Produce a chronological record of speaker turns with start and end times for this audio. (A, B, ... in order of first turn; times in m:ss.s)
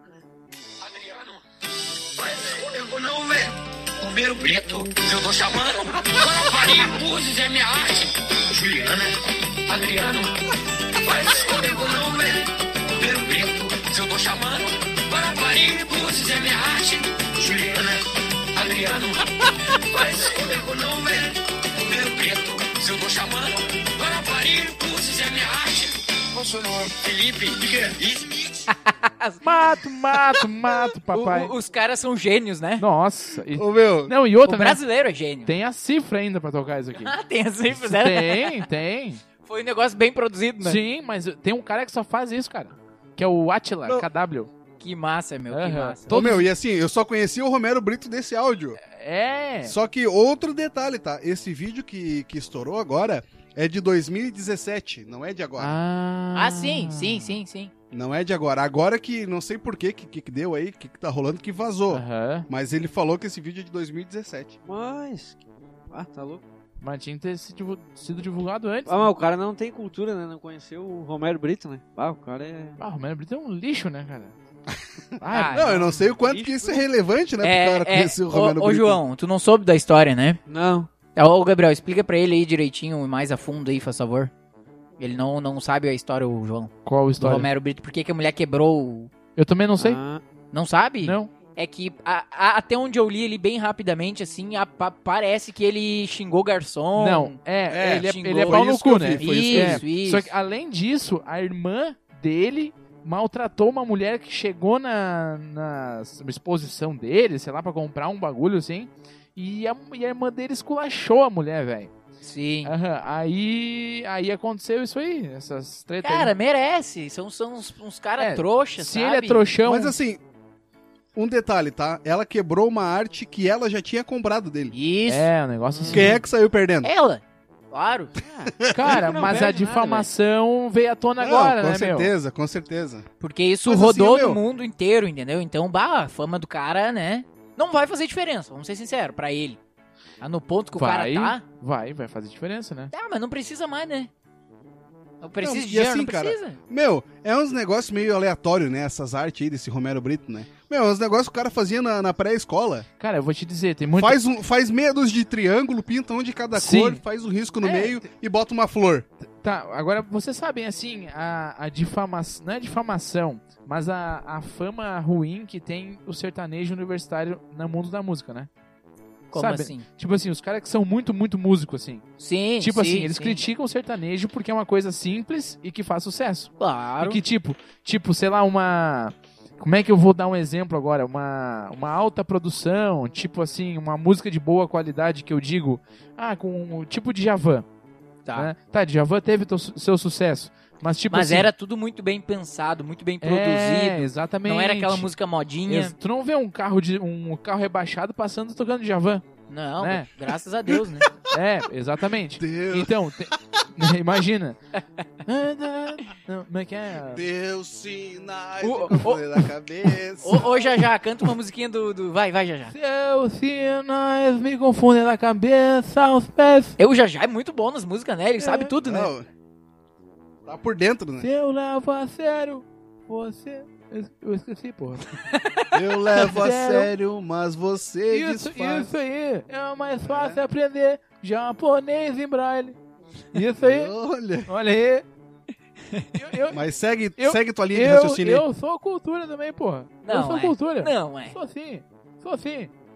0:00.8-0:01.4 A
0:02.0-0:28.7 A
0:28.7-0:30.4 B
0:29.4-0:31.5 C
0:31.1-0:32.8 B
0:32.8-0:34.8 C
0:33.5-0:34.1 D
0:34.4-0:35.5 B
0:35.4-0:37.1 C
0:37.0-0:38.7 B
0:37.7-0:39.2 C
0:39.4-0:40.8 B
0:40.6-0:44.5 C
0:44.8-0:46.1 B
0:45.5-0:46.5 C
0:46.1-0:48.8 D
0:48.8-0:49.8 C
0:49.6-0:55.8 D
0:55.6-0:57.4 C
0:56.3-0:57.7 B
0:57.9-1:04.6 D
1:01.9-1:02.5 C
1:04.6-1:05.4 E
1:05.9-1:06.4 E
1:06.8-1:09.1 C
1:08.8-1:12.8 E
1:12.8-1:14.3 C
1:14.7-1:19.0 D
1:15.2-1:16.0 C
1:15.3-1:15.9 B
1:16.2-1:16.8 E
1:17.4-1:20.4 B
1:20.5-1:20.9 E
1:21.1-1:24.3 B
1:25.0-1:29.1 B
1:26.8-1:27.5 C
1:29.3-1:30.0 C
1:29.8-1:30.2 E
1:30.5-1:37.4 B
1:31.0-1:31.3 C
1:37.0-1:51.9 C
1:37.7-1:39.8 D
1:38.0-1:40.3 B
1:52.2-1:52.7 B
1:52.6-1:56.3 C
1:56.0-1:59.4 B
1:58.2-2:00.0 C
1:59.6-2:00.2 D
2:01.1-2:04.7 D
2:04.7-2:05.3 B
2:05.1-2:06.2 C
2:05.8-2:06.1 E
2:05.9-2:06.9 D
2:06.8-2:08.1 B
2:08.2-2:10.1 E
2:08.6-2:09.0 D
2:08.7-2:12.1 C
2:11.2-2:13.0 D
2:13.2-2:19.6 B
2:13.6-2:14.4 D
2:20.2-2:21.4 B
2:20.8-2:22.9 C
2:22.9-2:24.1 B
2:25.2-2:26.6 B
2:25.4-2:32.9 D
2:33.0-2:34.2 C
2:33.9-2:39.1 D
2:36.5-2:37.0 C
2:37.6-2:38.0 C
2:39.4-2:48.5 C
2:49.3-2:49.8 B
2:49.3-2:52.0 C
2:52.2-2:53.4 B
2:52.6-3:07.6 C
2:56.6-2:57.2 B
3:08.2-3:08.5 B
3:08.3-3:11.5 C
3:11.1-3:15.9 B
3:13.2-3:15.1 C
3:15.7-3:19.2 C
3:19.5-3:21.1 B
3:19.8-3:20.1 C
3:20.7-3:21.0 D
3:21.3-3:24.6 C
3:22.4-3:23.8 D
3:25.2-3:27.2 C
3:27.1-3:30.9 D
3:28.6-3:29.3 B
3:30.2-3:32.7 B
3:32.7-3:36.8 C
3:36.8-3:39.1 B
3:38.4-3:38.7 C
3:38.8-3:39.3 D
3:40.4-3:41.3 D
3:41.2-3:46.9 C
3:45.7-3:48.9 D
3:48.1-3:52.8 C
3:50.0-3:50.4 D
3:53.3-3:53.9 C
3:53.6-3:54.5 D
3:54.5-3:55.0 C
3:55.9-3:56.2 B
3:56.2-3:56.6 C
3:56.5-3:58.4 D
3:57.2-4:02.7 C
4:00.0-4:01.4 B